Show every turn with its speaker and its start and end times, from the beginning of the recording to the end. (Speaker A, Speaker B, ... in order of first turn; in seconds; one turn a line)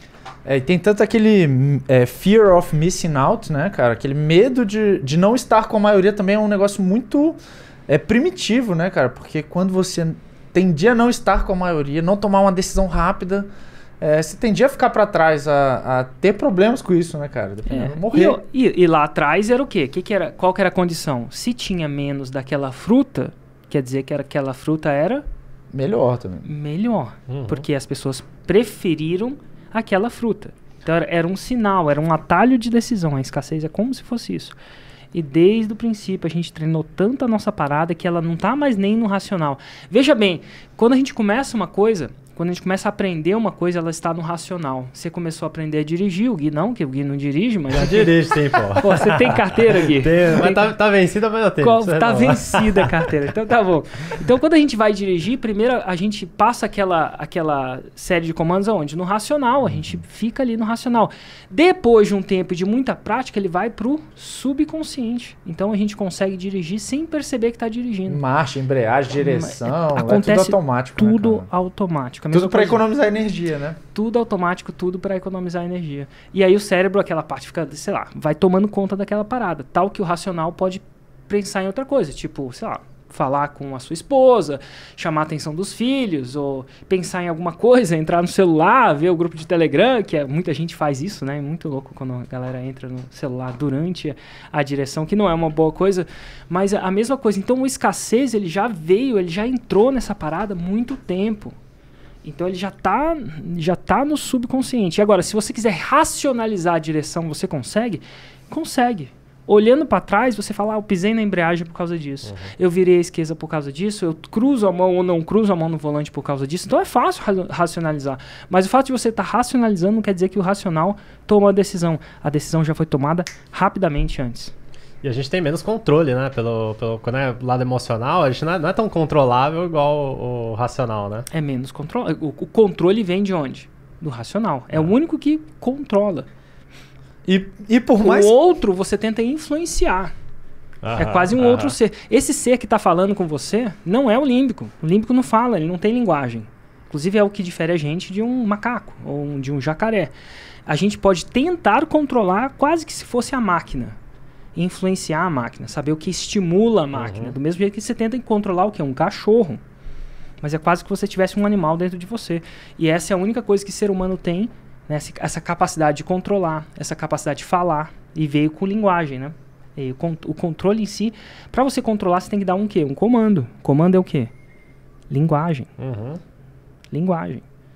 Speaker A: 0.5-13.5
Speaker A: 14.0-18.4
Speaker B: 17.7-25.2
Speaker A: 25.7-26.5
Speaker B: 26.4-34.6
Speaker C: 27.3-27.7
Speaker B: 35.1-50.8
Speaker C: 47.7-52.9
Speaker B: 51.6-68.2
Speaker A: 68.1-71.5
Speaker B: 69.2-72.8
Speaker A: 72.3-73.8
Speaker B: 73.9-101.5
Speaker B: 102.2-124.5
Speaker C: 112.2-112.5
Speaker C: 125.0-131.3
Speaker B: 131.3-136.3
Speaker A: 137.2-138.4
Speaker B: 138.0-140.1
Speaker C: 140.8-141.8
Speaker B: 140.9-150.1
Speaker B: 150.7-154.0
Speaker B: 154.6-159.6
Speaker C: 156.9-157.4
Speaker B: 160.4-174.3
Speaker B: 175.1-175.7
Speaker C: 175.8-176.2
Speaker B: 176.9-177.4